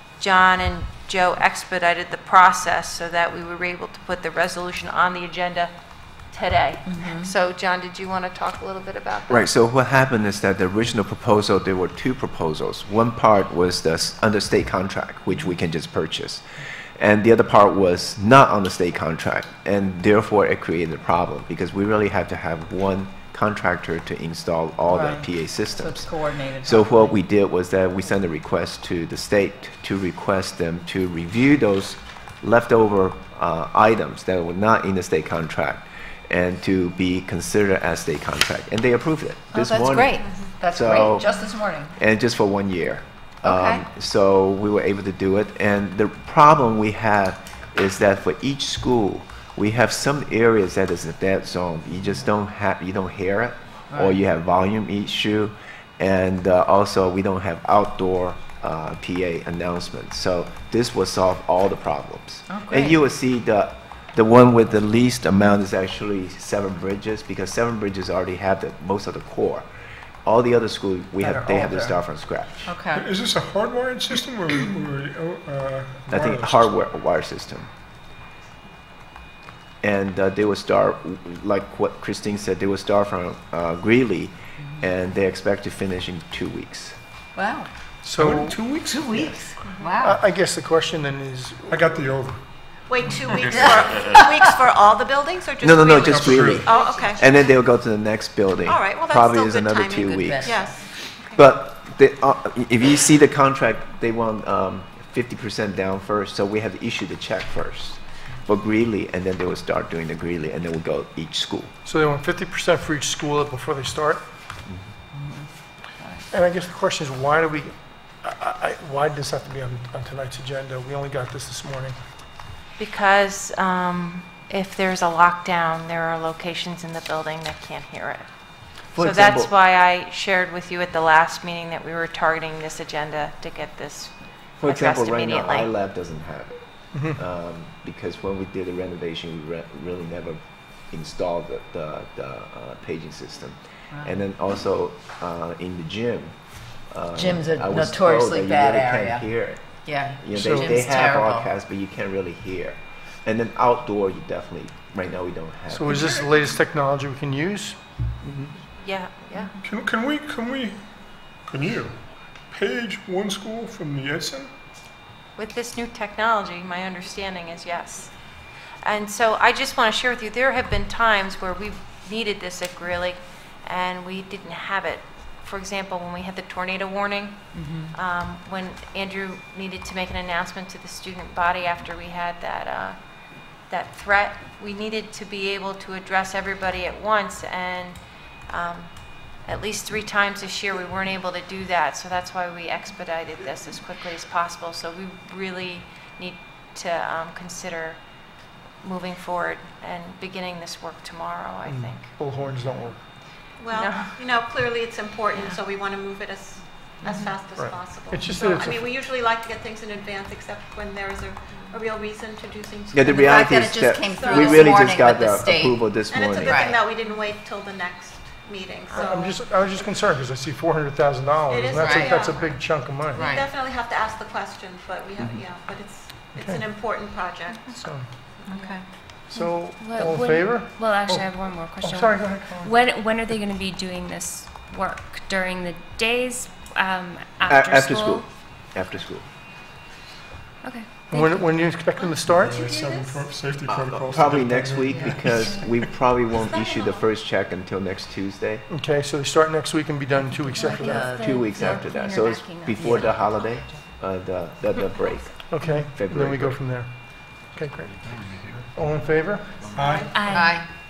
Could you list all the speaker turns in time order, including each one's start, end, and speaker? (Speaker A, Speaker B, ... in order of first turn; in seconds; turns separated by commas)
Speaker A: 0.2-5.7, Speaker A: 6.3-9.5, Speaker B: 6.9-7.2, Speaker C: 9.3-16.4, Speaker C: 17.0-41.3, Speaker B: 24.9-25.2, Speaker B: 25.8-27.2, Speaker B: 39.5-41.9, Speaker D: 40.2-40.5, Speaker C: 42.0-69.7, Speaker B: 43.4-43.8, Speaker B: 53.9-54.2, Speaker B: 62.5-63.0, Speaker C: 70.2-72.8, Speaker B: 71.2-72.0, Speaker B: 72.7-73.0, Speaker E: 72.9-76.7, Speaker C: 76.1-77.7, Speaker C: 79.8-87.0, Speaker B: 87.3-87.7, Speaker F: 88.0-88.6, Speaker E: 88.2-89.5, Speaker B: 88.8-90.2, Speaker F: 90.0-92.0, Speaker E: 91.7-92.4, Speaker D: 92.9-97.3, Speaker B: 93.5-93.8, Speaker C: 95.6-100.5, Speaker E: 96.2-96.6, Speaker D: 98.6-101.4, Speaker B: 100.1-100.8, Speaker C: 101.3-111.7, Speaker F: 111.8-114.2, Speaker B: 115.1-115.4, Speaker F: 116.3-122.0, Speaker A: 122.8-128.3, Speaker C: 128.9-129.5, Speaker A: 128.9-135.7, Speaker C: 134.6-136.6, Speaker F: 136.9-137.2, Speaker C: 137.2-146.3, Speaker B: 143.9-144.2, Speaker C: 146.9-156.0, Speaker B: 147.2-149.2, Speaker B: 149.8-151.5, Speaker F: 150.3-150.8, Speaker F: 155.7-158.5, Speaker E: 155.8-156.6, Speaker A: 158.8-159.5, Speaker E: 159.6-160.8, Speaker E: 161.4-162.0, Speaker E: 162.5-164.5, Speaker A: 165.3-168.1, Speaker A: 168.8-183.0, Speaker B: 177.5-177.9, Speaker A: 183.7-198.0, Speaker A: 198.8-202.1, Speaker F: 201.7-203.0, Speaker D: 203.6-214.9, Speaker A: 203.7-204.2, Speaker F: 207.6-208.9, Speaker C: 212.9-216.7, Speaker B: 213.2-216.8, Speaker D: 216.1-219.3, Speaker A: 218.9-219.3, Speaker F: 219.0-223.4, Speaker D: 221.5-227.7, Speaker B: 221.7-222.1, Speaker B: 223.2-223.4, Speaker F: 226.3-226.7, Speaker F: 227.7-228.1, Speaker D: 228.4-228.8, Speaker G: 228.5-228.8, Speaker F: 229.3-232.8, Speaker G: 229.3-238.2, Speaker C: 237.5-239.3, Speaker G: 240.6-241.5, Speaker F: 241.1-242.6, Speaker D: 242.0-243.2, Speaker E: 242.2-245.7, Speaker C: 243.7-248.6, Speaker G: 245.2-245.7, Speaker D: 246.3-247.0, Speaker F: 248.7-251.1, Speaker G: 250.1-253.6, Speaker B: 250.8-251.3, Speaker C: 251.1-256.6, Speaker F: 255.5-256.9, Speaker F: 257.5-258.0, Speaker F: 258.7-259.7, Speaker E: 259.7-260.1, Speaker D: 259.8-260.2, Speaker G: 260.1-260.6, Speaker B: 260.3-260.7